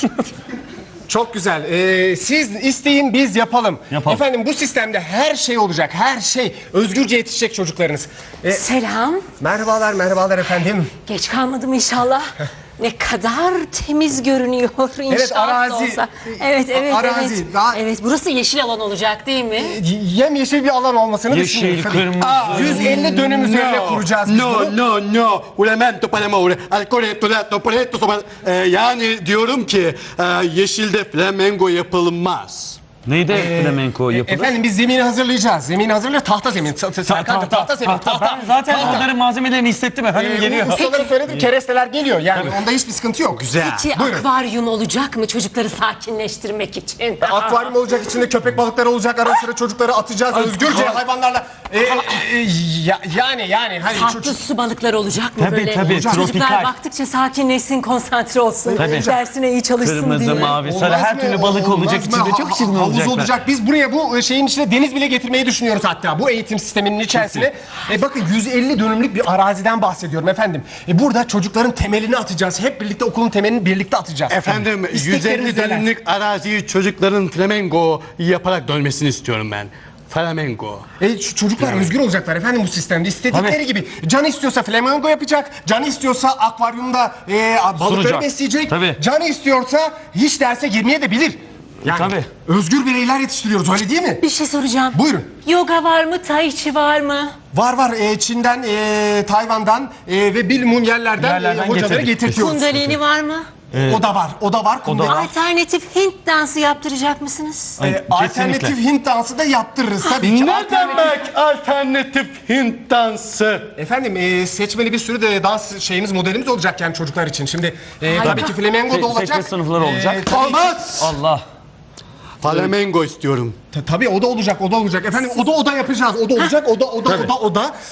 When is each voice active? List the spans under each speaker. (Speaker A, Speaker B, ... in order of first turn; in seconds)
Speaker A: 1.1-8.6, 9.4-10.9, 15.1-16.0, 16.7-17.8, 19.6-24.8, 33.3-39.1, 40.1-44.2, 47.2-54.4, 55.5-56.3, 58.7-59.2, 60.3-75.9, 81.0-94.2, 94.9-95.3, 97.5-102.9, 103.8-105.3, 107.8-111.2, 113.8-121.1, 123.7-127.7
Speaker B: 3.9-4.2, 21.3-23.0, 33.0-34.5, 37.1-41.4, 55.4-56.7, 58.8-59.1, 59.8-63.3, 67.2-67.5, 83.3-83.6, 87.8-89.0, 91.8-92.3, 101.2-102.9, 103.7-104.0, 104.8-105.3, 107.8-108.8, 118.2-120.3, 120.9-121.4
Speaker C: 8.5-9.3, 11.1-19.8, 43.6-47.7, 53.9-60.6, 94.2-97.3, 102.3-103.5, 105.0-107.8, 118.1-118.5
Speaker D: 22.2-32.8, 74.3-80.9, 110.2-113.7, 120.3-121.0, 122.4-123.6